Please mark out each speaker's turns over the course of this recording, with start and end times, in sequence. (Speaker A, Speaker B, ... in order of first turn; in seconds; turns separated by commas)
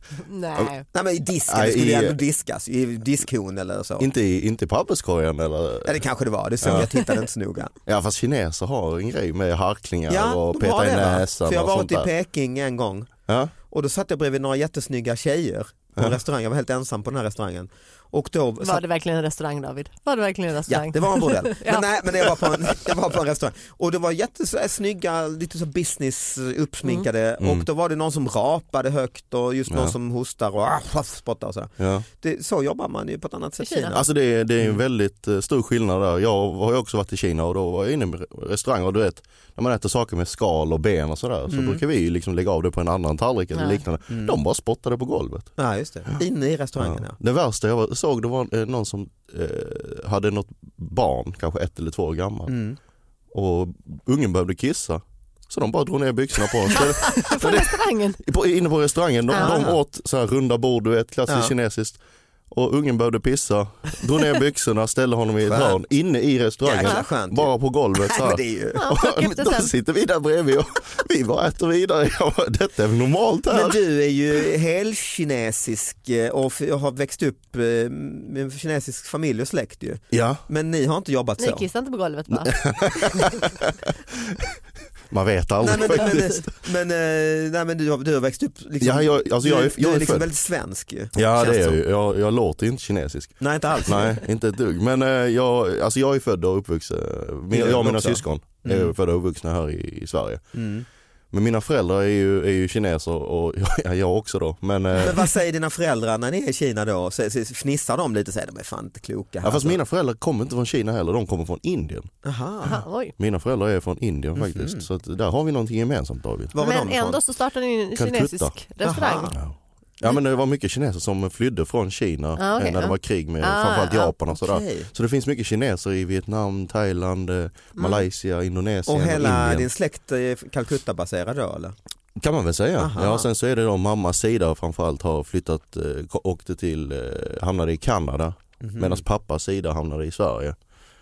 Speaker A: 0.2-0.8, Speaker B: 0.9-4.1, Speaker C: 1.5-2.2, Speaker C: 4.0-6.0, Speaker B: 5.8-7.7, Speaker C: 6.6-6.9, Speaker C: 7.8-12.1, Speaker B: 10.1-13.1, Speaker C: 13.3-13.5, Speaker B: 13.7-18.8, Speaker A: 18.6-21.8, Speaker B: 20.7-34.0, Speaker C: 31.8-32.0, Speaker A: 33.6-34.0, Speaker C: 33.9-45.5, Speaker B: 41.5-41.8, Speaker A: 43.5-43.8, Speaker B: 44.1-44.4, Speaker B: 45.6-47.1, Speaker C: 46.8-52.5, Speaker B: 52.5-52.8, Speaker C: 53.3-62.0, Speaker A: 56.7-58.2, Speaker A: 59.3-59.6, Speaker B: 59.4-59.8, Speaker C: 62.5-73.8, Speaker B: 65.5-65.8, Speaker B: 66.6-67.5, Speaker B: 68.1-68.8, Speaker A: 68.8-69.7, Speaker B: 73.5-81.7, Speaker C: 80.1-80.4, Speaker A: 81.4-82.6, Speaker C: 82.5-83.4, Speaker C: 85.1-86.5, Speaker B: 85.6-91.8, Speaker C: 88.8-90.3, Speaker C: 91.1-100.4, Speaker B: 93.4-94.2, Speaker B: 97.5-98.9, Speaker B: 100.5-100.8, Speaker C: 101.3-105.2, Speaker B: 105.0-109.8, Speaker C: 109.4-112.1, Speaker B: 112.2-112.8, Speaker A: 112.7-113.1, Speaker C: 113.2-116.5, Speaker B: 114.3-114.8, Speaker B: 116.5-117.2, Speaker A: 116.6-119.3, Speaker C: 118.0-118.5, Speaker B: 118.8-119.4, Speaker C: 119.3-129.7, Speaker A: 122.4-124.1, Speaker B: 124.3-124.9, Speaker A: 127.8-128.0, Speaker B: 128.9-131.7, Speaker C: 132.2-140.6, Speaker B: 132.8-133.2, Speaker B: 138.6-139.0